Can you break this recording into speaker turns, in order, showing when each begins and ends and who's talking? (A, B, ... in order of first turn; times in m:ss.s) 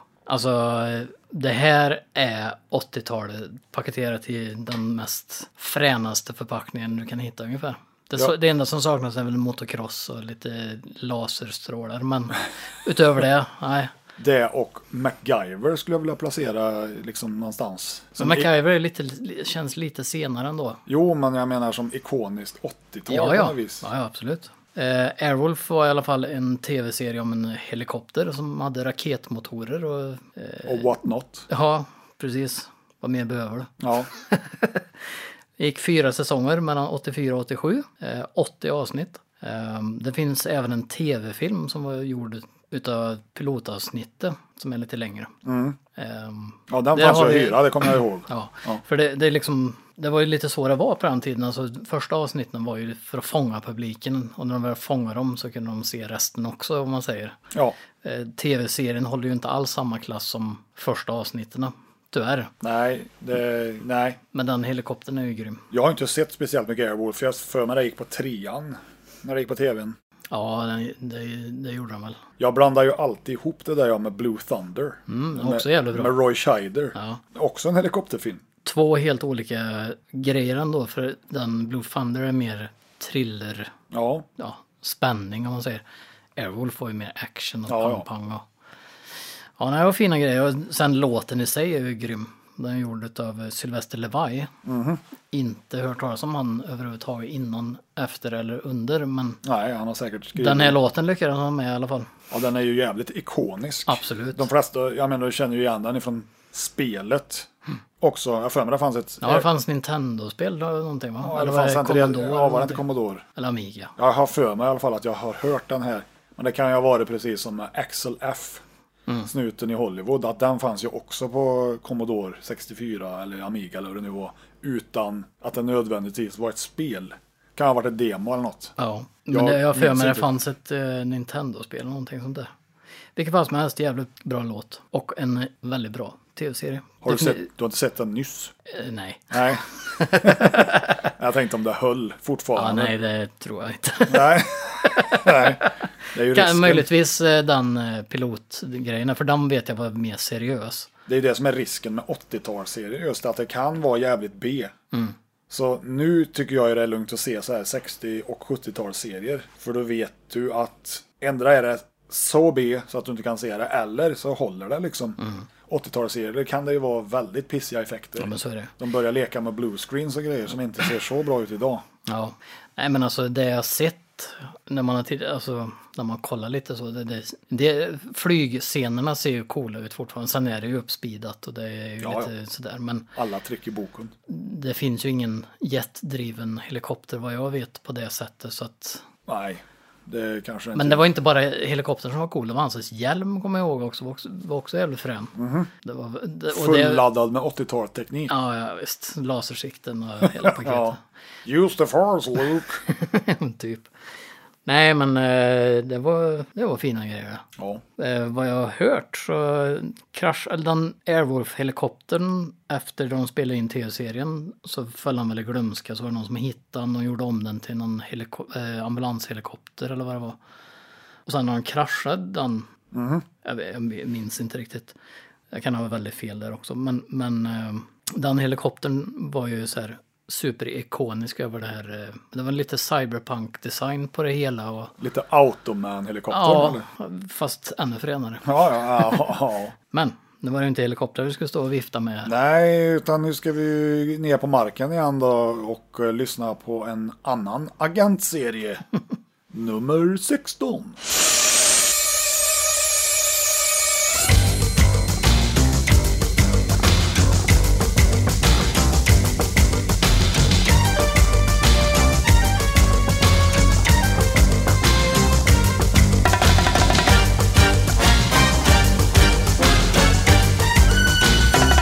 0:00.2-0:13.9 A
0:14.2-0:18.5 B
0:18.2-0:20.8 A
0:20.9-0:23.8 B
0:23.1-0:31.0 A
0:30.6-0:31.5 B
0:31.5-0:34.8 A
0:33.8-0:34.1 B
0:35.6-0:45.3 A
0:45.4-0:45.8 B
0:46.0-0:57.4 A
0:46.7-0:48.8 B
0:57.5-0:57.8 B
0:58.0-1:02.5 A
1:02.6-1:04.2 B
1:04.3-1:05.6 A
1:05.7-1:10.0 B
1:10.3-1:12.2 A
1:12.4-1:18.4 B
1:15.1-1:16.2 A
1:16.9-1:17.2 A
1:18.6-1:23.7 A
1:23.9-1:24.3 B
1:24.4-1:25.8 A
1:26.4-1:28.4 A
1:27.7-1:28.0 B
1:29.6-1:34.5 A
1:34.6-1:35.0 B
1:35.3-1:39.4 A
1:39.4-1:40.8 B
1:40.4-1:42.1 A
1:42.3-1:47.5 B
1:43.9-1:44.4 A
1:48.0-1:49.5 B
1:49.2-1:53.9 A
1:51.2-1:53.2 B
1:54.0-1:58.6 B
1:59.2-2:08.8 B
2:08.8-2:12.5 A
2:09.3-2:10.3 B
2:13.2-2:17.4 A
2:17.0-2:18.5 B
2:18.7-2:21.0 A
2:19.3-2:22.9 B
2:22.6-2:30.9 A
2:24.1-2:26.9 B
2:31.1-2:34.7 B
2:35.5-2:51.8 B
2:45.2-2:45.5 A
2:48.2-2:48.7 A
2:52.0-3:03.1 A
3:02.0-3:02.3 B
3:03.1-3:04.1 B
3:04.3-3:09.0 A
3:09.2-3:11.1 B
3:10.7-3:17.0 A
3:15.4-3:15.7 B
3:16.5-3:18.3 B
3:18.3-3:21.0 A
3:20.2-3:22.9 B
3:22.9-3:23.9 A
3:24.6-3:27.4 A
3:28.0-3:40.4 A
3:41.2-3:42.7 A
3:42.9-3:43.2 B
3:43.4-3:44.9 A
3:45.5-3:54.9 A
3:55.0-3:56.8 B
3:56.3-3:59.3 A
3:58.4-3:59.7 B
3:59.9-4:02.3 A
4:02.2-4:08.8 B
4:09.5-4:11.0 B